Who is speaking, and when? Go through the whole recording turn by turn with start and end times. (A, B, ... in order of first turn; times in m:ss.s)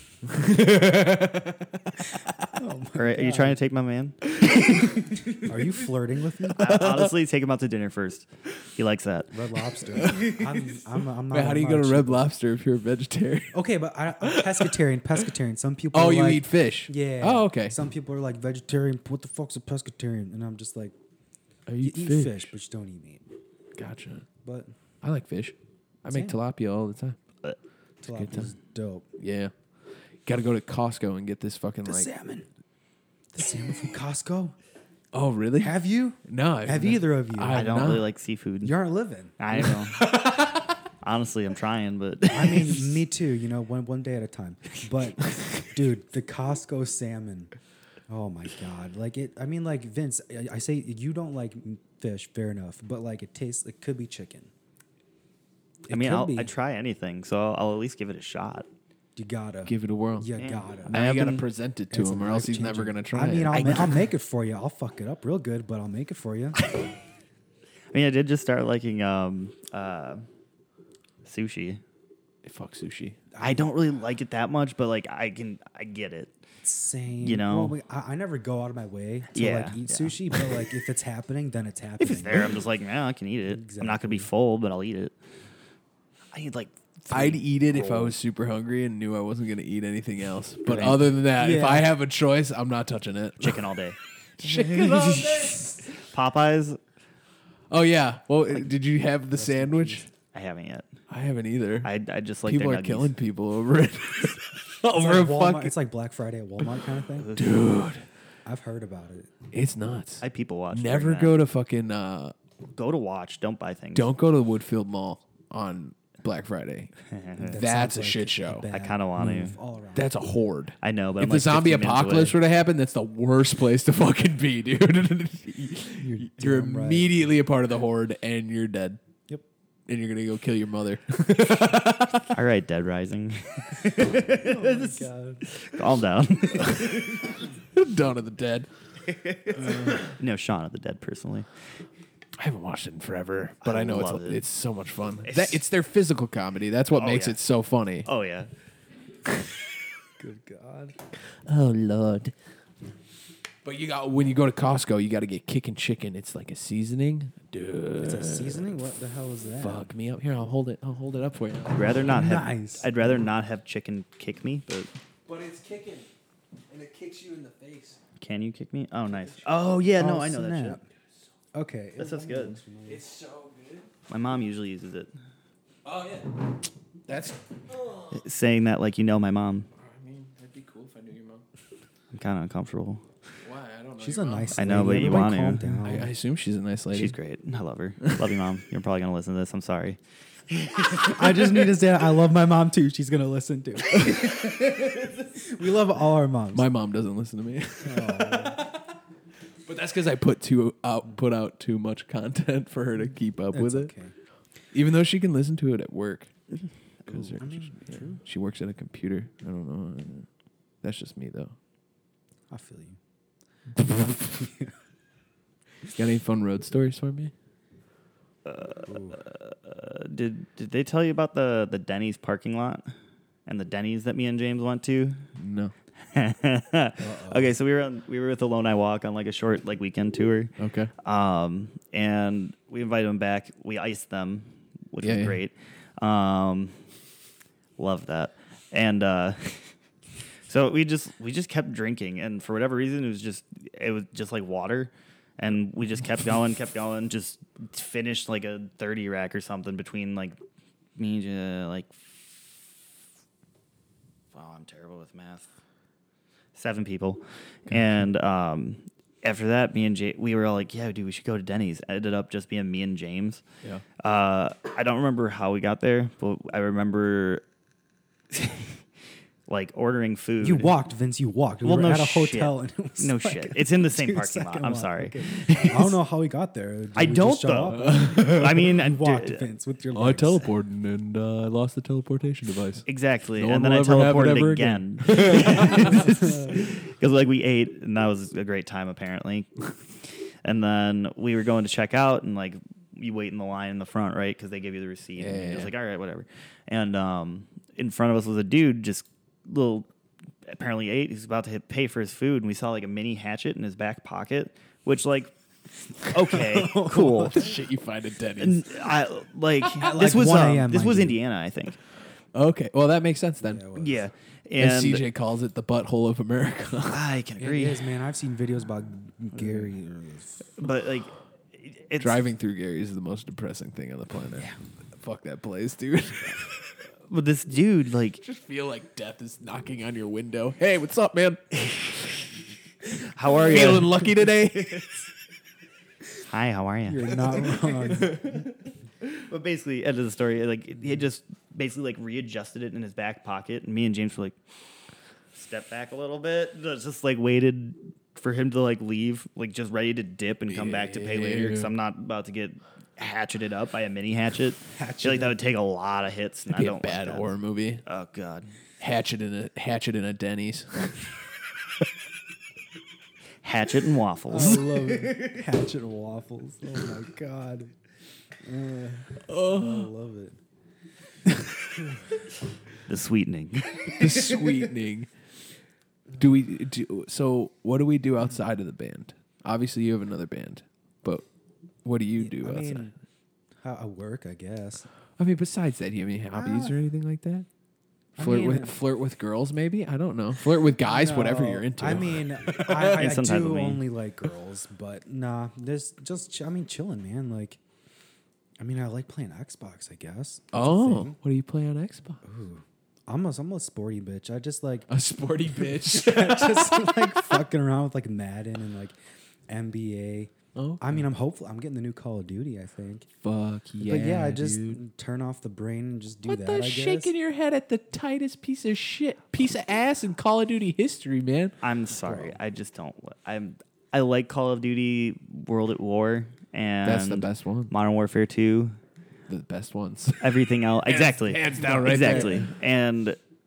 0:00.2-0:02.5 A
0:02.5-0:03.6 B
0:02.9-0:05.0 C
0:04.4-0:04.9 A
0:05.1-0:06.7 B
0:06.5-0:07.1 A
0:06.6-0:09.4 C
0:09.3-0:12.3 B
0:09.9-0:13.6 A
0:13.5-0:20.9 B
0:14.2-0:14.7 A
0:15.9-0:17.8 A
0:21.7-0:22.5 A
0:21.8-0:23.2 B
0:23.8-0:24.3 A
0:24.4-0:24.7 B
0:25.0-0:27.2 A
0:26.1-0:26.4 B
0:28.0-0:29.1 B
0:28.1-0:28.5 A
0:29.2-0:29.5 A
0:30.2-0:32.1 A
0:31.8-0:32.5 B
0:33.3-0:34.5 B
0:35.1-0:35.7 A
0:35.6-0:37.7 B
0:36.3-0:38.1 A
0:37.5-0:38.7 C
0:38.6-0:39.4 B
0:39.4-0:40.1 C
0:39.5-0:40.8 A
0:41.0-0:43.0 C
0:42.3-0:47.5 B
0:48.1-0:54.5 B
0:55.9-0:56.5 B
0:55.9-0:58.7 C
0:59.2-1:01.0 B
0:59.6-1:00.3 A
1:00.4-1:01.4 C
1:00.8-1:03.9 A
1:01.9-1:06.6 B
1:03.5-1:04.0 C
1:06.6-1:06.9 C
1:07.9-1:10.2 C
1:11.2-1:11.8 C
1:12.4-1:13.2 A
1:13.3-1:13.7 B
1:13.4-1:16.4 C
1:16.6-1:22.6 B
1:17.2-1:17.7 C
1:19.3-1:20.5 C
1:22.0-1:25.1 C
1:23.5-1:24.3 B
1:26.3-1:28.1 C
1:27.1-1:33.6 A
1:30.6-1:31.0 C
1:31.3-1:31.9 B
1:33.4-1:36.8 C
1:34.4-1:35.8 A
1:37.7-1:40.1 A
1:39.3-1:40.0 B
1:40.3-1:40.9 C
1:41.1-1:41.9 A
1:41.8-1:43.1 C
1:42.4-1:45.8 A
1:44.9-1:47.3 B
1:47.2-1:47.7 C
1:47.4-1:48.0 A
1:48.4-1:49.3 B
1:49.5-1:52.3 A
1:50.2-1:51.4 C
1:52.8-1:54.1 C
1:53.9-1:56.9 A
1:57.1-1:57.6 C
1:57.4-2:00.1 B
1:57.4-1:58.7 A
1:58.7-1:59.6 C
1:59.9-2:09.0 A
2:00.8-2:02.4 C
2:06.0-2:07.2 B
2:09.9-2:12.3 A
2:12.3-2:17.3 C
2:14.3-2:15.4 B
2:16.7-2:17.0 A
2:17.7-2:18.7 A
2:19.1-2:21.5 C
2:19.5-2:20.1 A
2:22.4-2:28.1 A
2:23.6-2:24.4 C
2:25.2-2:25.6 C
2:27.0-2:27.4 C
2:28.0-2:28.5 C
2:30.2-2:30.9 B
2:31.3-2:32.3 A
2:33.6-2:38.7 A
2:38.0-2:39.9 B
2:39.6-2:42.2 A
2:41.7-2:44.9 C
2:42.0-2:42.9 B
2:45.2-2:46.1 A
2:46.7-2:48.0 A
2:48.2-2:50.8 C
2:49.2-2:49.5 A
2:50.0-2:50.8 B
2:51.5-2:53.0 B
2:52.0-2:52.6 C
2:52.8-2:53.9 A
2:54.1-2:55.1 C
2:55.8-2:56.6 A
2:57.1-2:58.2 A
2:58.1-2:59.7 C
2:59.8-3:01.4 A
3:02.1-3:03.0 C
3:03.4-3:07.2 A
3:04.0-3:06.1 B
3:04.5-3:05.8 C
3:06.9-3:10.0 C
3:10.7-3:16.7 B
3:16.5-3:18.9 A
3:17.8-3:18.7 B
3:19.6-3:23.9 A
3:23.5-3:24.1 B
3:24.7-3:26.3 A
3:27.0-3:27.4 C
3:27.1-3:30.3 A
3:27.4-3:28.2 B
3:30.8-3:31.5 A
3:32.5-3:33.0 B
3:34.0-3:34.7 B
3:36.0-3:37.3 A
3:38.4-3:42.9 C
3:38.9-3:39.2 B
3:43.4-3:45.2 C
3:45.4-3:45.7 A
3:46.1-3:56.8 C
3:47.0-3:47.6 B
3:50.6-3:50.9 A
3:55.0-3:55.4 A
3:57.8-3:59.7 C
4:00.5-4:10.4 C
4:11.0-4:12.1 C
4:14.3-4:15.5 C
4:16.5-4:23.4 C
4:24.0-4:27.4 C
4:28.3-4:28.8 C
4:29.5-4:30.7 C
4:30.4-4:40.5 B
4:31.6-4:36.0 C
4:37.0-4:39.4 C
4:37.7-4:38.7 A
4:39.9-4:42.8 A
4:42.8-4:49.5 C
4:43.4-4:46.1 A
4:45.4-4:46.6 B
4:50.0-4:59.9 C
4:55.2-4:55.7 A
5:00.4-5:05.3 C
5:06.0-5:07.5 C
5:06.2-5:08.9 A
5:08.4-5:11.8 C
5:09.8-5:11.2 B
5:12.3-5:13.7 A
5:13.4-5:14.0 B
5:13.8-5:15.0 C
5:14.6-5:17.0 A
5:16.9-5:17.8 C
5:17.4-5:20.5 B
5:20.6-5:22.2 C
5:22.0-5:26.6 A
5:27.1-5:28.2 C
5:28.2-5:31.4 A
5:33.0-5:34.0 C
5:33.3-5:35.0 A
5:36.3-5:37.2 C
5:36.9-5:38.4 B
5:37.4-5:38.5 A
5:39.3-5:44.4 C
5:45.3-5:57.3 C
5:50.5-5:51.7 A
5:54.7-5:55.4 B
5:56.5-5:57.8 A
5:57.8-5:58.5 C
5:58.8-6:01.0 A
6:03.4-6:05.3 C
6:04.3-6:07.7 B
6:08.4-6:10.4 B
6:09.3-6:09.9 A
6:12.9-6:14.0 C
6:14.0-6:15.1 A
6:14.3-6:14.6 B
6:16.2-6:21.2 A
6:21.8-6:22.9 A
6:22.2-6:22.9 B
6:23.6-6:24.9 B
6:25.2-6:27.5 A
6:26.3-6:26.8 B
6:28.2-6:28.7 B
6:28.2-6:33.0 A
6:30.8-6:37.6 B
6:32.7-6:33.8 C
6:38.6-6:41.2 B
6:40.5-6:42.2 A
6:42.2-6:44.9 B
6:44.9-6:47.4 A
6:45.6-6:49.0 B
6:49.5-6:53.1 B
6:50.5-6:51.0 A
6:53.2-6:54.8 A
6:53.8-6:57.1 B
6:56.2-7:01.5 A
7:01.6-7:08.8 C
7:02.0-7:02.4 B
7:06.8-7:07.7 A
7:09.3-7:12.5 A
7:10.2-7:13.2 C
7:11.6-7:12.4 B